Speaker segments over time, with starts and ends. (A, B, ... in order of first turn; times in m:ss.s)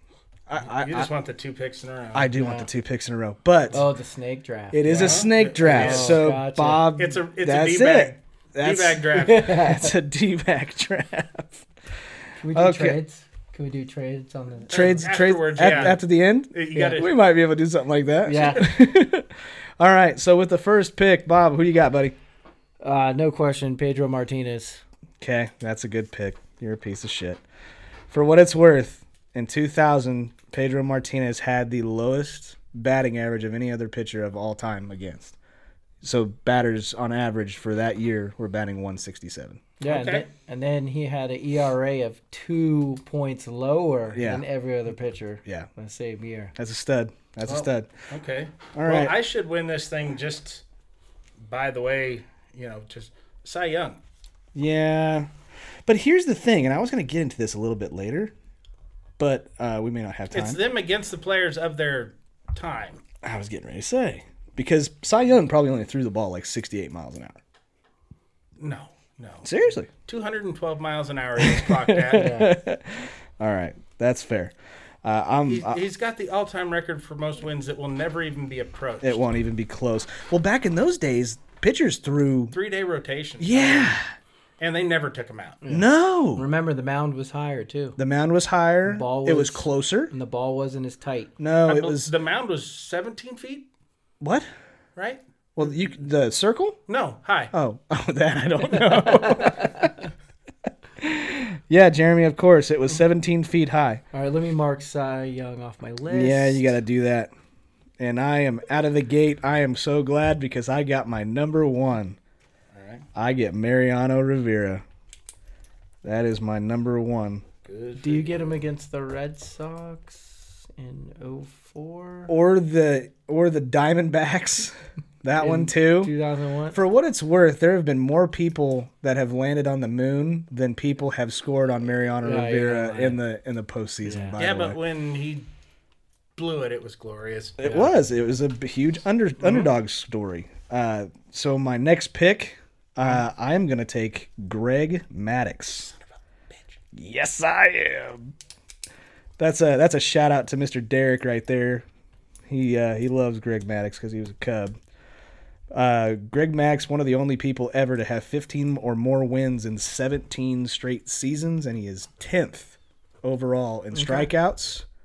0:00.5-0:01.1 A
0:00.6-0:02.3 B
0:02.1-0:03.8 A
0:02.4-0:02.7 C
0:03.7-0:06.9 C
0:04.7-0:11.7 A
0:04.9-0:06.2 B
0:06.9-0:09.5 B
0:09.2-0:09.9 C
0:12.4-0:15.0 C
0:12.5-0:13.0 A
0:14.7-0:16.0 B
0:14.7-0:22.1 A
0:16.5-0:17.1 B
0:16.7-0:17.0 C
0:18.2-0:18.7 C
0:22.8-0:24.8 C
0:25.2-0:27.4 A
0:28.1-0:35.4 A
0:36.0-0:39.6 A
0:39.8-0:46.5 C
0:39.8-0:40.2 B
0:44.1-0:44.4 A
0:46.6-0:47.9 A
0:47.5-0:50.6 B
0:48.7-0:49.1 A
0:51.4-0:54.0 B
0:54.5-0:55.3 A
0:55.8-0:58.3 A
0:59.2-1:00.6 A
1:00.3-1:03.0 B
1:03.2-1:07.4 A
1:08.6-1:12.4 B
1:09.4-1:09.9 A
1:11.4-1:15.8 A
1:12.1-1:12.5 C
1:15.5-1:19.2 B
1:19.0-1:22.5 A
1:22.5-1:24.0 B
1:23.4-1:24.1 A
1:24.6-1:25.6 B
1:25.6-1:28.0 C
1:25.7-1:26.4 A
1:28.0-1:30.1 A
1:28.8-1:31.3 C
1:31.4-1:32.1 A
1:31.6-1:33.7 B
1:34.2-1:34.5 A
1:35.0-1:35.8 B
1:35.6-1:36.8 A
1:36.9-1:37.5 B
1:37.5-1:39.9 A
1:39.2-1:39.9 C
1:41.0-1:44.0 A
1:44.1-1:46.7 C
1:46.1-1:47.3 A
1:48.0-1:52.2 A
1:52.7-1:53.0 B
1:53.1-1:54.8 A
1:56.0-1:57.4 A
1:57.6-1:58.5 B
1:58.0-2:02.3 C
2:02.3-2:06.1 A
2:05.4-2:06.8 C
2:06.7-2:14.8 A
2:12.2-2:13.2 C
2:14.0-2:14.4 C
2:14.4-2:15.5 B
2:16.4-2:17.6 B
2:17.6-2:25.9 A
2:17.6-2:17.9 C
2:19.4-2:19.7 B
2:26.5-2:26.8 B
2:26.9-2:28.3 A
2:29.4-2:31.8 A
2:32.5-2:34.8 A
2:35.7-2:44.8 A
2:43.9-2:44.3 C